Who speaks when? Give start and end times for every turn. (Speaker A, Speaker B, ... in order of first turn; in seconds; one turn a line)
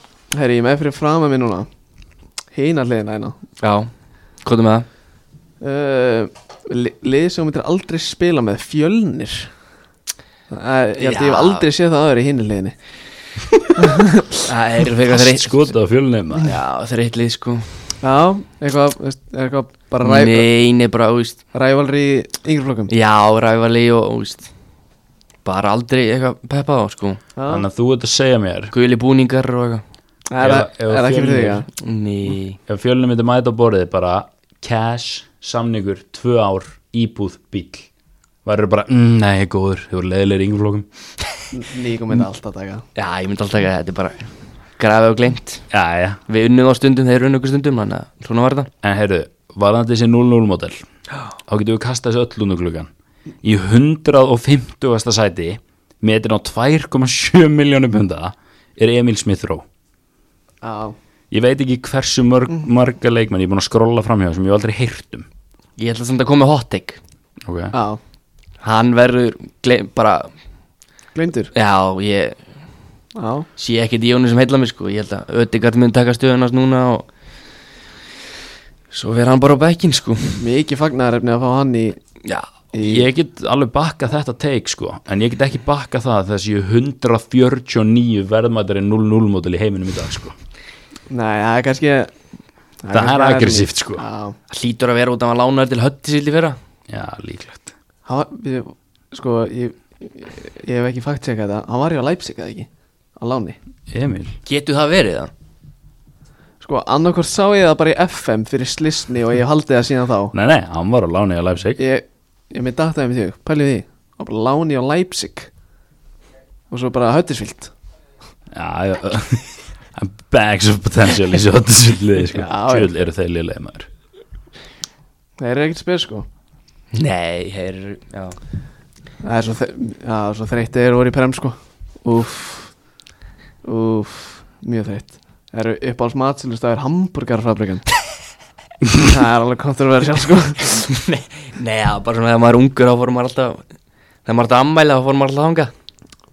Speaker A: 0.3-1.7
Speaker A: 2.5-3.4
Speaker B: 3.6-3.9
Speaker B: 4.4-4.9
Speaker A: 5.6-9.5
Speaker A: 10.5-12.8
Speaker B: 11.0-11.7
Speaker A: 13.8-14.4
Speaker B: 14.5-15.7
Speaker C: 15.1-16.6
Speaker B: 16.4-17.9
Speaker A: 18.0-20.5
Speaker B: 20.0-21.4
Speaker A: 21.5-22.9
Speaker B: 22.9-24.5
Speaker B: 25.4-27.2
Speaker A: 27.4-27.7
Speaker C: 27.5-28.7
Speaker B: 28.7-29.8
Speaker A: 30.3-31.7
Speaker C: 30.4-31.7
Speaker B: 31.8-32.6
Speaker C: 32.7-37.9
Speaker C: 38.5-40.9
Speaker A: 41.5-42.9
Speaker B: 43.0-45.7
Speaker C: 45.7-46.2
Speaker B: 46.3-48.7
Speaker C: 48.8-50.9
Speaker C: 51.5-52.9
Speaker C: 53.4-59.6
Speaker A: 60.6-61.0
Speaker C: 61.3-65.3
Speaker B: 65.8-67.0
Speaker C: 67.4-67.7
Speaker A: 67.7-68.0
Speaker B: 68.6-70.3
Speaker A: 71.2-71.5
Speaker B: 71.5-72.5
Speaker A: 73.2-73.5
Speaker B: 73.6-77.1
Speaker B: 78.9-80.4
Speaker A: 80.4-82.0
Speaker B: 82.2-82.5
Speaker A: 82.7-83.0
Speaker C: 82.8-90.3
Speaker A: 91.1-92.1
Speaker A: 92.8-94.4
Speaker C: 92.9-94.0
Speaker B: 94.5-96.6
Speaker C: 96.9-97.7
Speaker A: 98.1-102.7
Speaker A: 103.2-103.6
Speaker C: 103.9-104.4
Speaker B: 104.5-105.3
Speaker A: 106.6-110.3
Speaker C: 110.3-111.8
Speaker A: 111.8-115.5
Speaker A: 116.7-117.7
Speaker C: 118.5-123.9
Speaker A: 122.3-122.9
Speaker A: 125.4-126.3
Speaker B: 126.9-128.4
Speaker A: 129.2-132.8
Speaker A: 133.6-137.9
Speaker A: 139.0-140.8
Speaker B: 140.8-143.6
Speaker B: 144.2-145.7